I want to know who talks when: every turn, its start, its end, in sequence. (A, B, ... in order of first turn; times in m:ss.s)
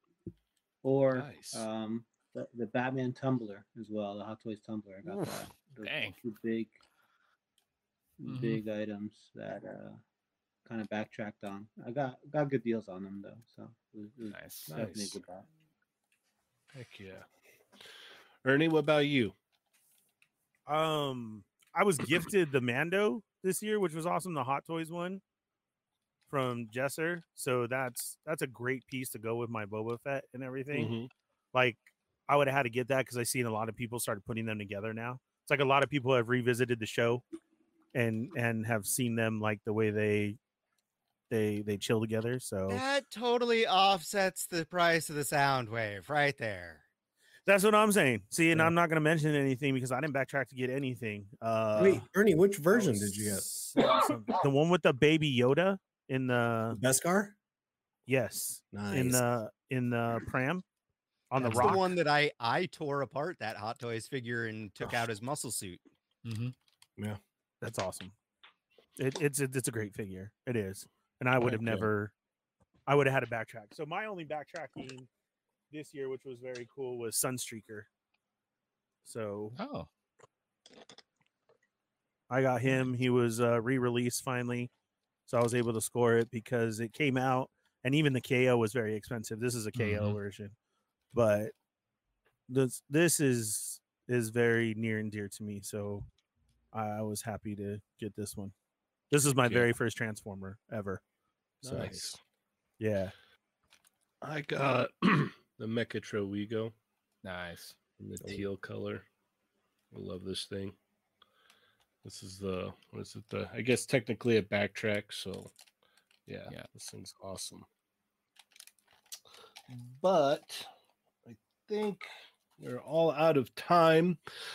0:00.8-0:06.8 A
0:01.1-0:01.6 B
0:05.8-0:06.2 C
0:08.2-0:10.0 A
0:08.2-0:08.6 C
0:10.6-0:15.4 A
0:14.2-0:14.7 C
0:14.7-0:15.2 B
0:16.7-0:17.2 B
0:18.4-0:19.3 B
0:20.7-0:25.2 D
0:26.3-0:30.9 D
0:30.7-0:31.1 B
0:31.5-0:37.2 D
0:37.9-0:40.4 D
0:41.3-0:42.8 D
0:42.7-0:46.8 E
0:47.5-0:52.1 D
0:51.7-0:53.8 F
0:52.7-0:56.8 D
0:56.7-0:57.3 F
0:58.1-1:00.6 D
0:58.7-0:59.3 F
1:01.3-1:01.8 D
1:01.4-1:05.8 E
1:06.2-1:06.5 C
1:07.6-1:08.1 D
1:09.0-1:12.1 D
1:12.9-1:15.1 D
1:15.7-1:17.9 D
1:19.0-1:19.6 D
1:19.6-1:19.9 C
1:22.3-1:24.7 D
1:25.3-1:30.5 D
1:29.7-1:30.2 C
1:31.1-1:31.5 D
1:32.5-1:36.1 D
1:36.7-1:38.5 D
1:39.1-1:41.0 D
1:39.4-1:39.7 B
1:41.6-1:42.2 B
1:41.6-1:42.0 D
1:42.8-1:43.1 D
1:44.2-1:46.7 B
1:47.2-1:47.8 C
1:48.0-1:49.0 B
1:49.9-1:50.7 B
1:52.0-1:55.5 B
1:56.3-1:57.6 B
1:59.7-2:00.7 B
2:01.2-2:02.1 B
2:02.6-2:04.2 B